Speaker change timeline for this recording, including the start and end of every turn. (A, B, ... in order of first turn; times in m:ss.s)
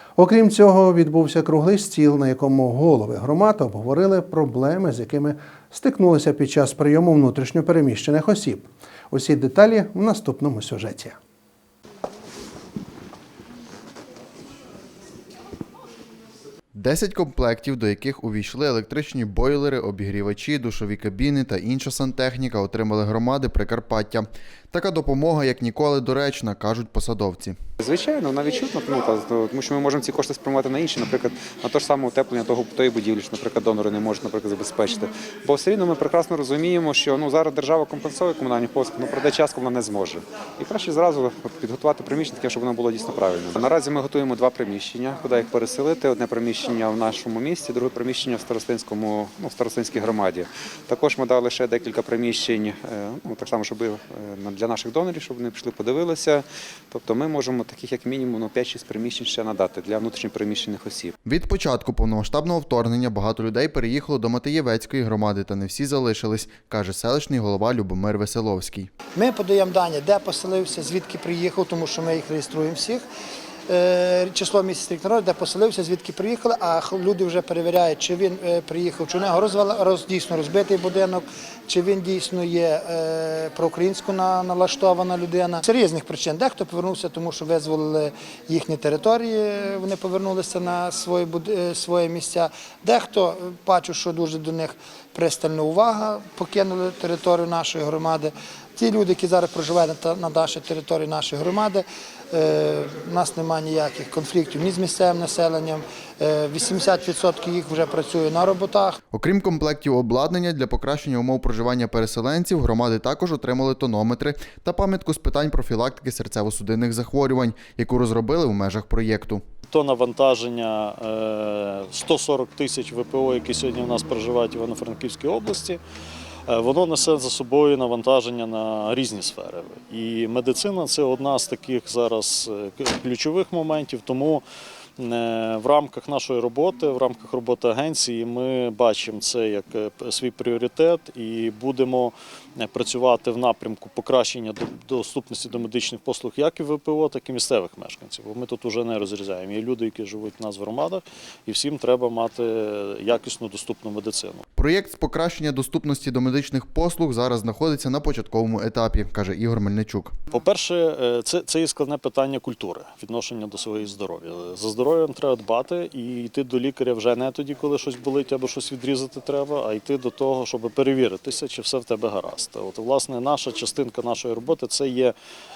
0:00.2-0:11.2 A
0:16.7-0:27.6 B
0:27.8-1:01.1 C
1:01.2-1:08.9 B
1:09.2-1:13.0 D
1:13.7-1:49.0 D
1:49.1-1:59.4 B
1:59.7-2:05.8 E
2:06.5-2:14.4 E
2:15.0-2:34.4 E
2:34.6-2:40.2 B
2:40.3-2:55.1 E